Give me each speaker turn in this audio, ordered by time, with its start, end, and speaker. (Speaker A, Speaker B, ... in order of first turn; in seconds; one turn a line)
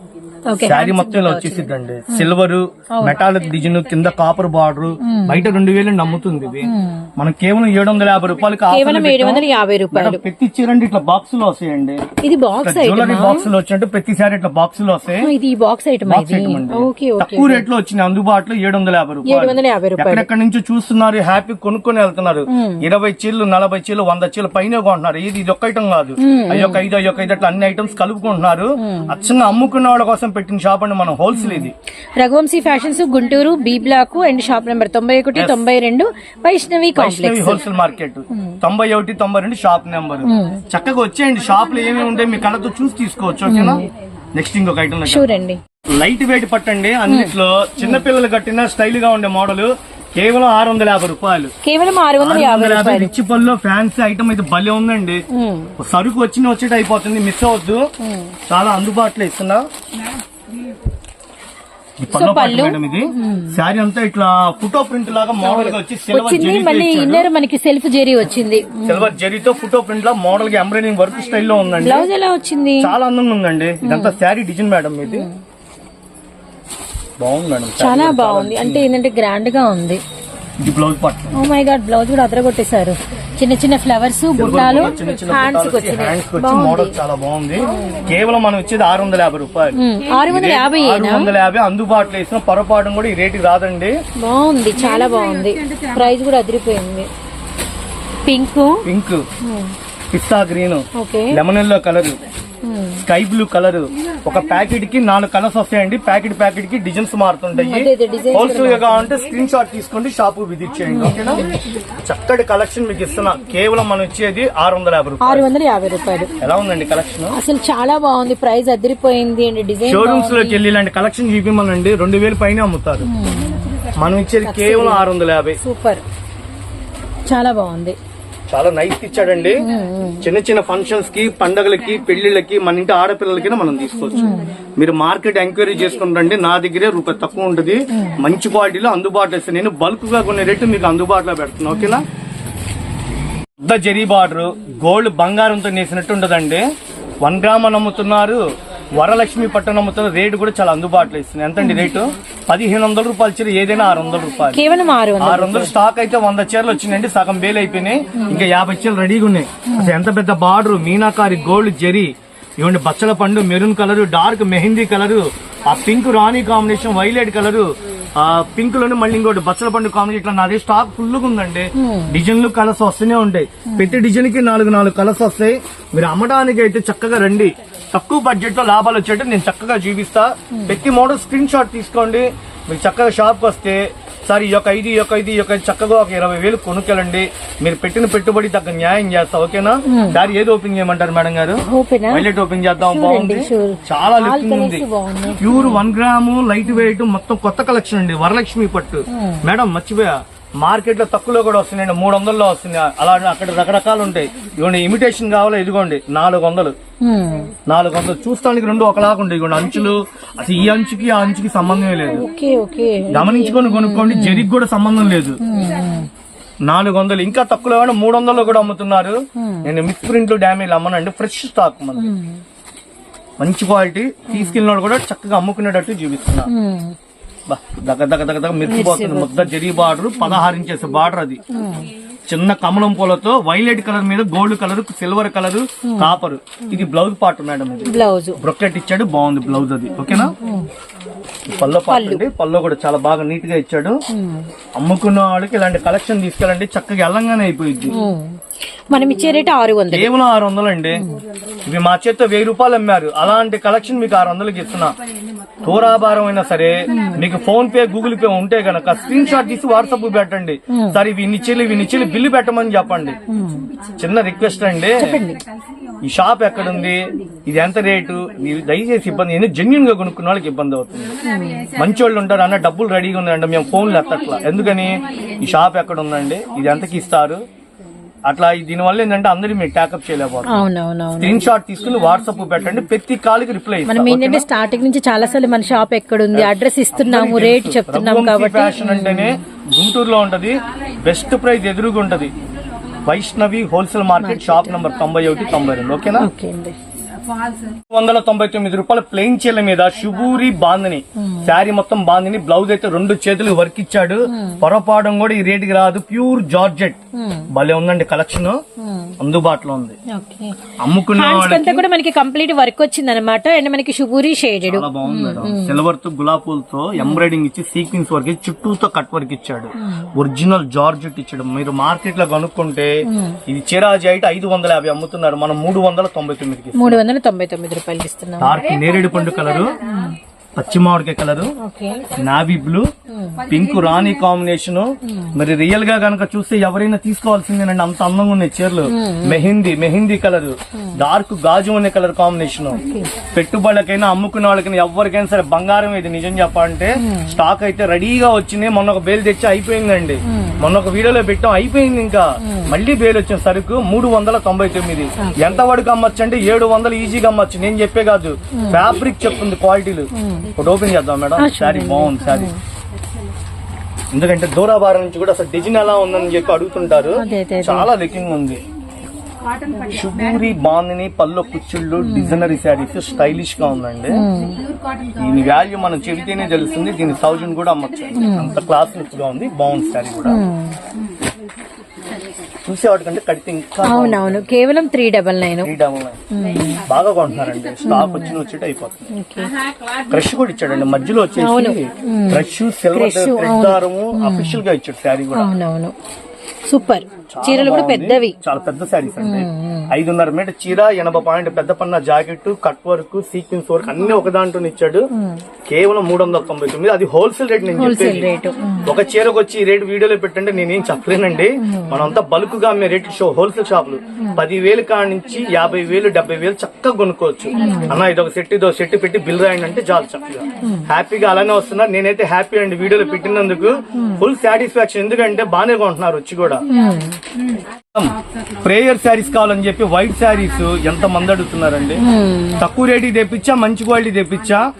Speaker A: 0.5-2.3
Speaker B: 0.6-12.0
Speaker A: 3.0-3.2
Speaker A: 5.0-5.5
Speaker A: 6.6-7.1
Speaker A: 8.7-10.2
Speaker A: 12.2-13.5
Speaker B: 12.6-15.3
Speaker A: 15.2-17.6
Speaker B: 16.1-31.7
Speaker A: 19.2-20.3
Speaker A: 22.5-22.8
Speaker A: 26.2-26.8
Speaker A: 28.8-29.1
Speaker A: 31.3-37.6
Speaker B: 35.3-35.6
Speaker B: 36.9-45.3
Speaker A: 38.3-38.6
Speaker A: 40.2-40.6
Speaker A: 43.5-43.9
Speaker A: 45.0-45.6
Speaker B: 45.9-51.5
Speaker A: 47.1-48.0
Speaker A: 51.6-53.1
Speaker B: 52.2-55.2
Speaker A: 55.3-55.7
Speaker B: 55.8-57.9
Speaker A: 58.0-58.3
Speaker B: 58.5-59.6
Speaker B: 62.0-67.3
Speaker A: 62.1-63.6
Speaker A: 65.4-69.1
Speaker B: 68.8-72.1
Speaker A: 71.8-72.9
Speaker B: 72.8-75.3
Speaker A: 73.8-74.2
Speaker A: 75.0-75.4
Speaker B: 77.2-78.9
Speaker A: 77.8-80.0
Speaker B: 80.6-81.4
Speaker A: 81.3-87.0
Speaker B: 84.3-93.9
Speaker A: 87.7-88.1
Speaker A: 89.8-91.3
Speaker A: 94.2-97.1
Speaker A: 98.2-98.8
Speaker B: 98.8-99.2
Speaker A: 99.4-99.7
Speaker B: 100.1-102.2
Speaker A: 100.9-101.4
Speaker A: 102.6-103.0
Speaker B: 103.0-115.5
Speaker A: 107.5-109.1
Speaker A: 110.9-111.5
Speaker A: 115.2-116.3
Speaker B: 116.4-117.4
Speaker A: 117.3-120.6
Speaker B: 119.8-123.1
Speaker A: 123.0-123.9
Speaker B: 124.0-125.6
Speaker A: 124.4-125.0
Speaker A: 125.6-126.0
Speaker A: 127.3-128.0
Speaker B: 128.5-129.6
Speaker A: 129.6-130.3
Speaker B: 130.2-142.0
Speaker A: 134.1-134.5
Speaker A: 137.9-138.2
Speaker A: 141.7-142.0
Speaker B: 143.6-146.6
Speaker B: 147.2-148.4
Speaker B: 149.0-154.6
Speaker A: 151.6-151.9
Speaker A: 154.5-155.7
Speaker B: 155.2-194.8
Speaker A: 158.2-158.4
Speaker A: 171.8-172.2
Speaker A: 173.7-174.0
Speaker A: 189.9-190.2
Speaker A: 191.6-195.8
Speaker B: 195.4-206.7
Speaker A: 199.1-199.4
Speaker A: 207.0-207.5
Speaker B: 207.7-212.2
Speaker A: 212.1-214.5
Speaker B: 213.1-215.4
Speaker A: 215.4-216.1
Speaker B: 216.7-222.1
Speaker A: 219.4-219.7
Speaker A: 221.9-222.4
Speaker B: 223.4-226.5
Speaker A: 224.3-224.6
Speaker A: 226.5-226.9
Speaker B: 227.5-231.4
Speaker A: 228.6-229.5
Speaker A: 231.5-231.9
Speaker B: 232.3-240.3
Speaker A: 235.8-236.1
Speaker A: 237.8-238.4
Speaker A: 240.1-240.7
Speaker B: 241.5-244.0
Speaker A: 241.9-242.2
Speaker A: 244.1-244.5
Speaker B: 244.8-247.9
Speaker A: 247.9-248.4
Speaker A: 248.9-250.1
Speaker B: 249.9-251.0
Speaker A: 250.9-251.2
Speaker B: 251.7-254.9
Speaker B: 255.6-263.2
Speaker A: 256.9-257.2
Speaker A: 260.7-261.0
Speaker A: 263.3-263.7
Speaker B: 264.0-265.2
Speaker A: 264.9-265.4
Speaker B: 266.0-271.1
Speaker A: 271.2-271.8
Speaker B: 271.7-277.4
Speaker B: 278.3-280.6
Speaker A: 280.5-281.5
Speaker B: 281.2-284.4
Speaker A: 283.9-289.4
Speaker B: 286.3-292.3
Speaker B: 293.0-296.3
Speaker A: 294.2-294.8
Speaker A: 296.2-296.8
Speaker B: 297.9-307.0
Speaker A: 301.2-301.5
Speaker A: 304.3-304.6
Speaker A: 307.1-307.5
Speaker B: 307.5-308.6
Speaker A: 308.8-309.1
Speaker B: 309.2-310.0
Speaker A: 310.1-315.8
Speaker B: 310.8-311.8
Speaker B: 314.6-327.0
Speaker A: 317.0-317.2
Speaker A: 319.8-320.1
Speaker A: 323.1-323.4
Speaker A: 326.7-328.6
Speaker B: 328.4-329.8
Speaker A: 329.8-330.2
Speaker B: 330.6-331.5
Speaker A: 331.6-332.1
Speaker B: 332.1-332.9
Speaker A: 333.1-333.5
Speaker B: 333.5-362.5
Speaker A: 335.0-335.3
Speaker A: 338.9-339.4
Speaker A: 342.7-343.1
Speaker A: 347.0-347.3
Speaker A: 350.3-350.6
Speaker A: 352.4-352.7
Speaker A: 355.2-355.6
Speaker A: 360.1-360.5
Speaker A: 361.4-362.6
Speaker B: 364.1-368.6
Speaker A: 367.2-367.9
Speaker B: 369.9-374.2
Speaker A: 372.0-372.4
Speaker A: 374.1-374.6
Speaker B: 375.1-380.4
Speaker A: 378.2-378.6
Speaker A: 380.2-380.8
Speaker B: 382.6-384.4
Speaker A: 383.8-385.7
Speaker B: 385.6-386.2
Speaker A: 386.3-386.9
Speaker B: 386.8-389.1
Speaker A: 387.8-388.4
Speaker A: 389.1-389.5
Speaker B: 390.1-395.5
Speaker A: 391.4-394.6
Speaker A: 395.3-395.9
Speaker A: 396.6-398.4
Speaker B: 397.3-405.1
Speaker A: 399.2-399.9
Speaker A: 405.1-405.4
Speaker B: 405.7-408.3
Speaker A: 407.7-408.9
Speaker B: 408.8-426.6
Speaker A: 411.6-412.1
Speaker A: 417.5-418.0
Speaker A: 423.9-424.2
Speaker A: 426.7-427.2
Speaker B: 427.9-432.0
Speaker A: 432.0-432.6
Speaker B: 432.6-434.6